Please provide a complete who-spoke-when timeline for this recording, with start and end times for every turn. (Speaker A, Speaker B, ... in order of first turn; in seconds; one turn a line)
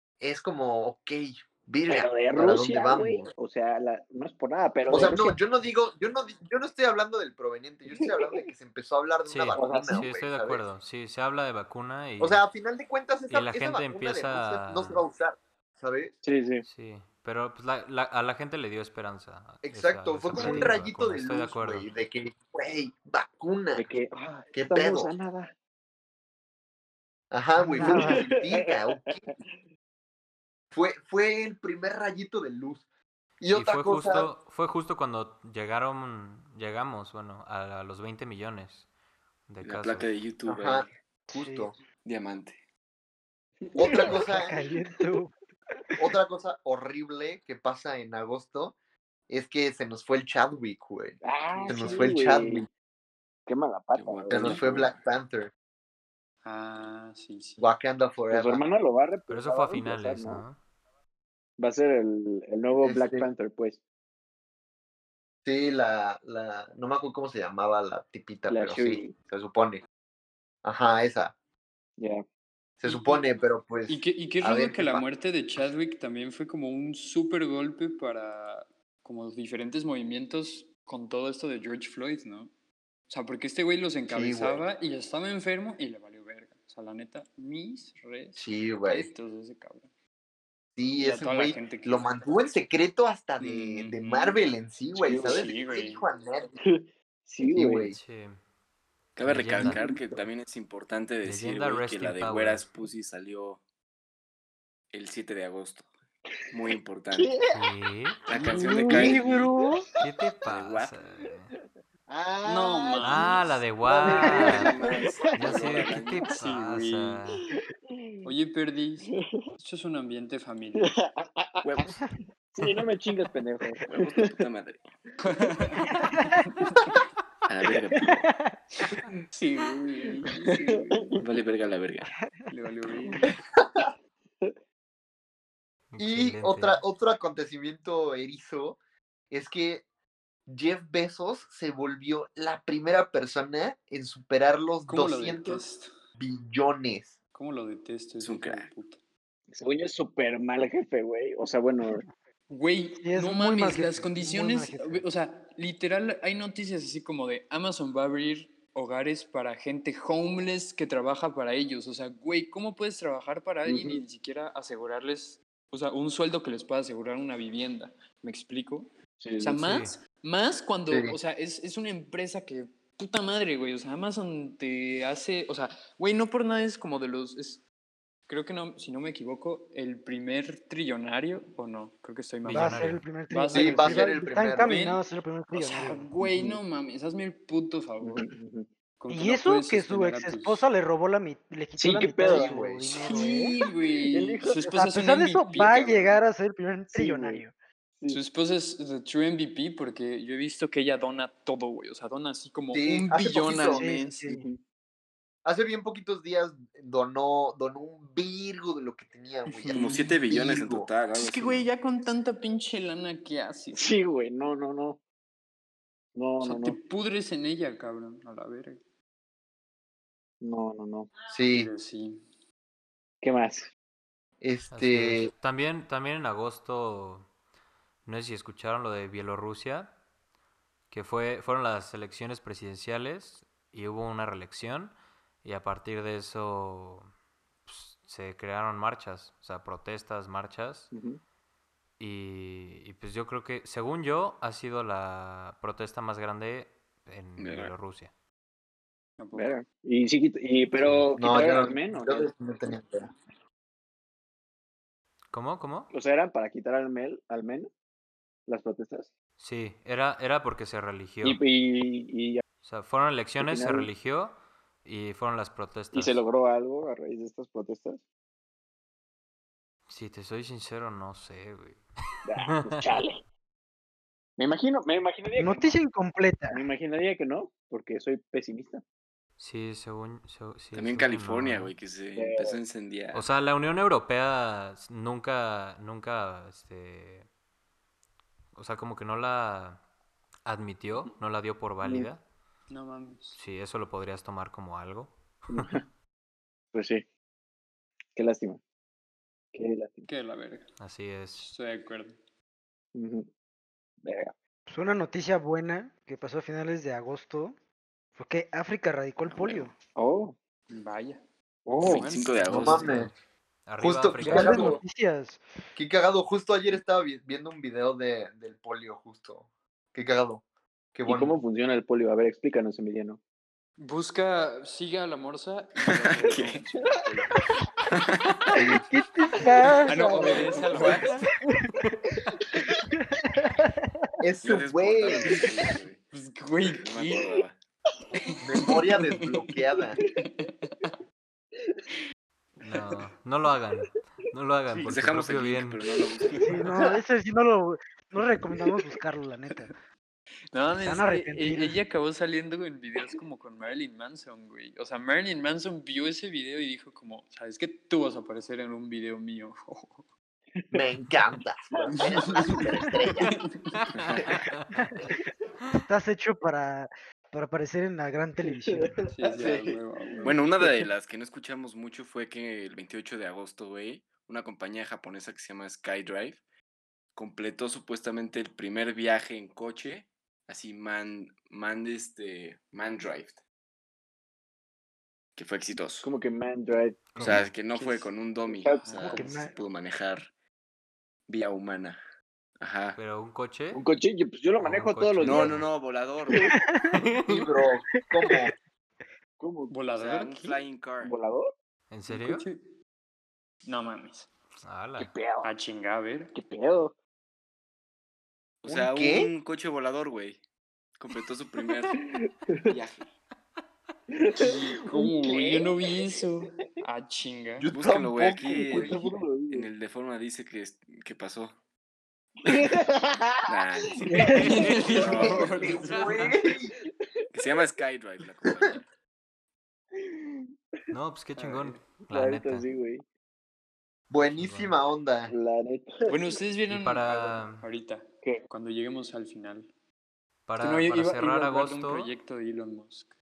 Speaker A: 0.2-3.3
Speaker B: 1.9-5.4
Speaker A: 4.9-10.6
Speaker B: 7.9-8.5
Speaker C: 9.3-12.4
Speaker B: 9.6-10.1
Speaker A: 12.2-16.2
Speaker C: 13.3-15.1
Speaker B: 16.2-16.6
Speaker C: 16.6-21.9
Speaker A: 19.6-23.9
Speaker D: 20.4-20.7
Speaker B: 23.8-25.5
Speaker A: 24.5-25.2
Speaker A: 27.3-29.3
Speaker D: 27.6-28.3
Speaker B: 27.8-28.8
Speaker A: 30.7-32.8
Speaker A: 33.4-34.3
Speaker C: 33.5-38.9
Speaker C: 39.5-40.1
Speaker E: 39.6-40.9
Speaker A: 40.5-41.7
Speaker D: 41.3-41.7
Speaker E: 42.0-42.6
Speaker B: 43.7-44.2
Speaker A: 43.8-44.6
Speaker D: 43.9-45.3
Speaker A: 46.0-48.8
Speaker A: 49.3-52.7
Speaker B: 51.2-52.6
Speaker F: 51.6-52.0
Speaker B: 53.5-54.7
Speaker E: 53.9-55.0
Speaker A: 54.3-55.5
Speaker F: 56.4-57.6
Speaker A: 57.6-58.6
Speaker B: 58.3-60.4
Speaker C: 59.3-60.6
Speaker B: 61.6-63.8
Speaker A: 62.8-63.3
Speaker A: 65.5-69.8
Speaker B: 68.5-69.1
Speaker A: 70.6-71.3
Speaker B: 72.0-72.2
Speaker A: 72.8-75.1
Speaker F: 72.9-73.2
Speaker F: 73.9-82.5
Speaker F: 83.1-89.9
Speaker A: 84.1-84.7
Speaker A: 88.4-89.1
Speaker A: 90.8-96.5
Speaker F: 91.0-92.2
Speaker F: 93.4-94.4
Speaker B: 95.0-95.5
Speaker F: 95.2-96.0
Speaker B: 96.7-97.9
Speaker A: 97.4-98.0
Speaker C: 97.9-98.4
Speaker E: 99.2-103.6
Speaker C: 99.2-99.8
Speaker B: 99.6-100.2
Speaker C: 101.2-102.7
Speaker E: 104.9-105.9
Speaker E: 106.5-107.3
Speaker B: 107.1-107.6
Speaker C: 107.5-108.2
Speaker E: 108.3-109.6
Speaker D: 108.5-109.1
Speaker B: 108.5-109.2
Speaker A: 108.9-109.3
Speaker C: 110.0-111.5
Speaker E: 110.5-110.9
Speaker A: 112.1-112.9
Speaker F: 112.4-113.5
Speaker B: 112.5-113.3
Speaker C: 113.0-114.8
Speaker B: 113.9-114.7
Speaker E: 114.0-116.3
Speaker C: 115.3-117.5
Speaker F: 116.3-117.2
Speaker B: 117.6-118.1
Speaker F: 118.2-121.0
Speaker B: 120.8-122.0
Speaker E: 121.6-122.0
Speaker B: 122.5-124.3
Speaker E: 123.9-124.8
Speaker F: 125.2-127.0
Speaker E: 127.5-128.3
Speaker F: 129.3-131.2
Speaker B: 130.3-130.8
Speaker E: 131.2-132.1
Speaker F: 132.5-133.4
Speaker C: 135.9-136.8
Speaker A: 136.0-138.8
Speaker A: 139.3-139.8
Speaker A: 140.5-145.6
Speaker F: 144.9-145.9
Speaker A: 146.2-147.2
Speaker F: 147.3-149.0
Speaker E: 148.2-148.7
Speaker B: 149.5-152.0
Speaker F: 152.5-168.9
Speaker D: 153.0-155.1
Speaker B: 163.7-164.0
Speaker B: 169.2-169.6
Speaker F: 169.4-177.6
Speaker C: 169.6-169.9
Speaker F: 178.3-188.3
Speaker C: 182.4-183.0
Speaker D: 182.5-186.0
Speaker A: 183.5-184.9
Speaker B: 186.2-186.6
Speaker B: 188.0-188.7
Speaker F: 189.0-190.7
Speaker D: 189.1-193.6
Speaker B: 191.8-192.6
Speaker A: 192.3-193.0
Speaker F: 193.1-196.2
Speaker B: 193.2-193.5
Speaker B: 194.1-194.6
Speaker D: 194.6-197.5
Speaker B: 196.9-197.4
Speaker F: 198.1-204.3
Speaker A: 202.7-203.8
Speaker D: 203.7-204.4
Speaker B: 204.3-204.6
Speaker A: 205.4-210.9
Speaker F: 209.5-210.2
Speaker E: 209.7-211.7
Speaker F: 211.1-213.9
Speaker B: 213.7-215.0
Speaker B: 216.2-216.8
Speaker F: 216.4-218.8
Speaker B: 220.4-221.1
Speaker A: 221.3-221.7
Speaker F: 221.5-222.2
Speaker B: 223.2-223.7
Speaker A: 224.4-225.3
Speaker C: 224.7-227.3
Speaker C: 228.1-229.9
Speaker C: 230.9-237.1
Speaker C: 237.7-240.9
Speaker B: 240.9-241.2
Speaker C: 242.0-248.1
Speaker E: 247.4-247.7
Speaker F: 249.2-249.6
Speaker B: 249.3-252.3
Speaker C: 250.8-251.1
Speaker A: 251.2-253.1
Speaker C: 255.3-255.9
Speaker B: 255.9-257.7
Speaker B: 258.5-259.1
Speaker C: 259.4-261.4
Speaker B: 261.2-262.4
Speaker C: 262.6-266.2
Speaker B: 263.4-263.9
Speaker B: 265.9-268.0
Speaker C: 269.9-271.8
Speaker B: 272.2-273.2
Speaker C: 272.4-273.0
Speaker B: 274.4-275.8
Speaker D: 275.4-276.7
Speaker B: 276.5-278.8
Speaker C: 279.4-281.8
Speaker E: 280.7-283.3
Speaker B: 282.2-282.6
Speaker C: 283.1-287.3
Speaker C: 288.6-289.8
Speaker C: 290.5-292.2
Speaker B: 291.8-292.1
Speaker F: 292.7-293.4
Speaker C: 293.4-295.8
Speaker B: 295.5-295.8
Speaker B: 296.7-297.1
Speaker B: 298.1-298.6
Speaker B: 299.5-300.1
Speaker F: 300.1-300.7
Speaker C: 300.8-301.5
Speaker F: 301.3-302.2
Speaker B: 302.9-303.3
Speaker B: 304.0-304.3
Speaker D: 304.7-307.6
Speaker D: 308.2-309.7
Speaker B: 310.0-310.4
Speaker F: 310.7-311.2
Speaker B: 311.7-312.1
Speaker F: 311.8-313.1
Speaker E: 311.8-313.0
Speaker A: 312.5-313.1
Speaker C: 313.7-314.8
Speaker A: 313.8-314.8
Speaker D: 314.2-315.4
Speaker A: 315.8-320.4
Speaker A: 320.9-321.4
Speaker B: 321.1-323.2
Speaker F: 323.8-327.5
Speaker E: 325.9-326.6
Speaker A: 328.6-328.9
Speaker D: 328.9-331.1
Speaker F: 329.8-331.4
Speaker B: 330.2-331.0
Speaker D: 333.2-333.9
Speaker A: 334.2-335.4
Speaker E: 334.4-336.0
Speaker F: 336.1-337.4
Speaker E: 336.6-337.6
Speaker F: 338.2-341.0
Speaker A: 338.4-340.0
Speaker C: 342.6-346.0
Speaker E: 344.8-346.6
Speaker D: 346.4-349.7
Speaker F: 350.5-360.0
Speaker D: 350.8-351.8
Speaker A: 360.7-363.3
Speaker B: 361.8-362.6
Speaker F: 361.9-363.9
Speaker C: 364.1-364.9
Speaker D: 365.7-369.0
Speaker B: 368.4-370.8
Speaker F: 369.1-370.4
Speaker E: 370.2-376.4
Speaker E: 377.2-383.4
Speaker E: 385.4-386.1
Speaker B: 386.0-387.2
Speaker C: 387.2-387.5
Speaker E: 387.2-390.3
Speaker B: 388.5-388.9
Speaker F: 388.7-389.5
Speaker D: 389.0-389.5
Speaker E: 391.3-392.0
Speaker E: 392.6-393.0
Speaker C: 393.0-393.8
Speaker B: 393.7-395.6
Speaker C: 394.6-395.7
Speaker E: 395.2-396.5
Speaker D: 396.4-397.0
Speaker C: 396.9-397.5
Speaker A: 397.3-398.5
Speaker B: 399.4-399.7
Speaker F: 399.7-400.6
Speaker E: 400.0-401.2
Speaker B: 401.0-401.5
Speaker C: 401.9-402.5
Speaker F: 402.1-402.7
Speaker F: 403.7-404.3
Speaker C: 404.6-405.1
Speaker B: 405.0-405.5
Speaker F: 405.4-406.3
Speaker B: 406.3-406.9
Speaker E: 408.6-410.4
Speaker A: 408.7-409.3
Speaker E: 411.0-412.0
Speaker B: 412.1-412.6
Speaker E: 412.7-413.0
Speaker B: 414.1-416.2
Speaker F: 414.4-417.7
Speaker A: 417.6-419.1
Speaker E: 417.7-421.6
Speaker B: 418.7-419.7
Speaker B: 422.5-423.5
Speaker E: 423.5-425.9
Speaker B: 424.1-424.5
Speaker F: 424.3-426.4
Speaker C: 424.4-424.9
Speaker A: 425.1-426.7
Speaker E: 427.3-428.8
Speaker B: 429.9-430.5
Speaker C: 430.9-432.7
Speaker F: 431.4-431.8
Speaker B: 432.1-433.1
Speaker A: 434.1-435.3
Speaker C: 434.1-434.8
Speaker B: 435.3-436.3
Speaker F: 436.1-439.7
Speaker C: 436.7-437.7
Speaker C: 440.5-442.1
Speaker F: 440.6-443.1